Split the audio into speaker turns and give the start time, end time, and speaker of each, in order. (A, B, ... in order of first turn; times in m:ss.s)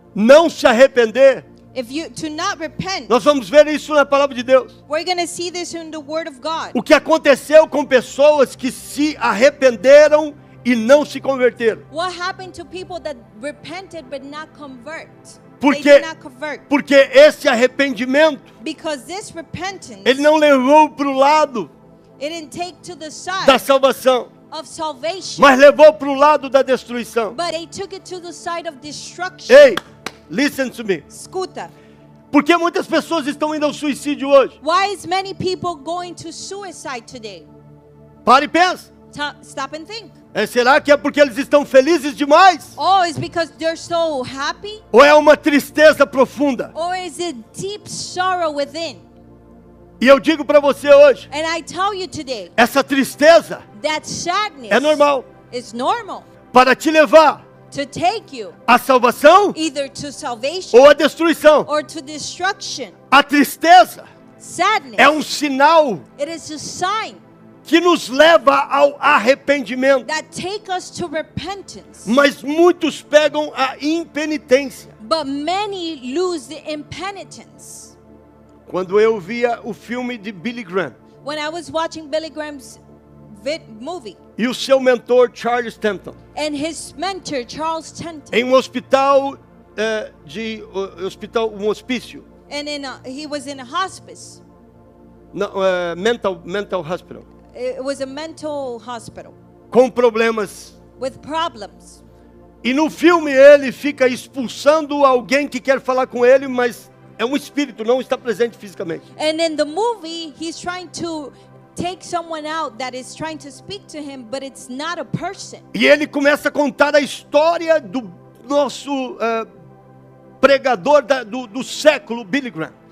0:00.1-0:01.4 A
0:01.7-0:03.1 B
0:03.1-0:04.7 A
0:04.9-0:06.8 B
0:06.7-0:11.8 A
0:11.9-0:16.6 B
0:15.6-0:16.1 A
0:16.7-0:18.4 A
0:18.6-0:20.3 B
0:20.0-0:21.7 A
0:22.2-0:23.7 B
0:23.4-0:24.3 A
0:24.5-0:25.5 B
0:25.4-0:27.4 A
0:27.3-0:29.8 B
0:29.5-0:31.0 A
0:31.1-0:31.7 B
0:32.3-0:34.6 A
0:34.6-0:37.5 B
0:38.2-0:38.9 A
0:39.1-0:40.2 B
0:40.3-0:42.8 A
0:42.8-0:44.8 B
0:44.9-0:46.7 A
0:46.7-0:49.0 B
0:50.0-0:51.3 A
0:51.3-0:52.5 B
0:52.6-0:53.6 A
0:53.8-0:56.3 B
0:54.7-0:55.3 A
0:56.5-0:57.4 A
0:57.7-0:58.6 B
0:58.7-0:59.6 A
0:59.5-1:00.9 B
1:00.7-1:01.7 A
1:01.6-1:02.9 B
1:03.1-1:04.0 A
1:04.4-1:05.2 B
1:05.0-1:06.0 A
1:06.2-1:07.2 B
1:07.6-1:10.1 A
1:10.0-1:12.1 B
1:12.0-1:14.9 A
1:15.0-1:17.9 B
1:18.7-1:21.0 A
1:21.2-1:24.2 B
1:24.4-1:26.2 A
1:26.3-1:28.4 B
1:28.3-1:32.2 A
1:32.5-1:34.4 B
1:35.3-1:37.3 A
1:37.5-1:39.3 B
1:39.7-1:40.7 A
1:41.0-1:42.0 B
1:42.6-1:49.0 A
1:49.2-1:55.6 B
1:55.7-1:59.5 A
2:00.4-2:02.7 A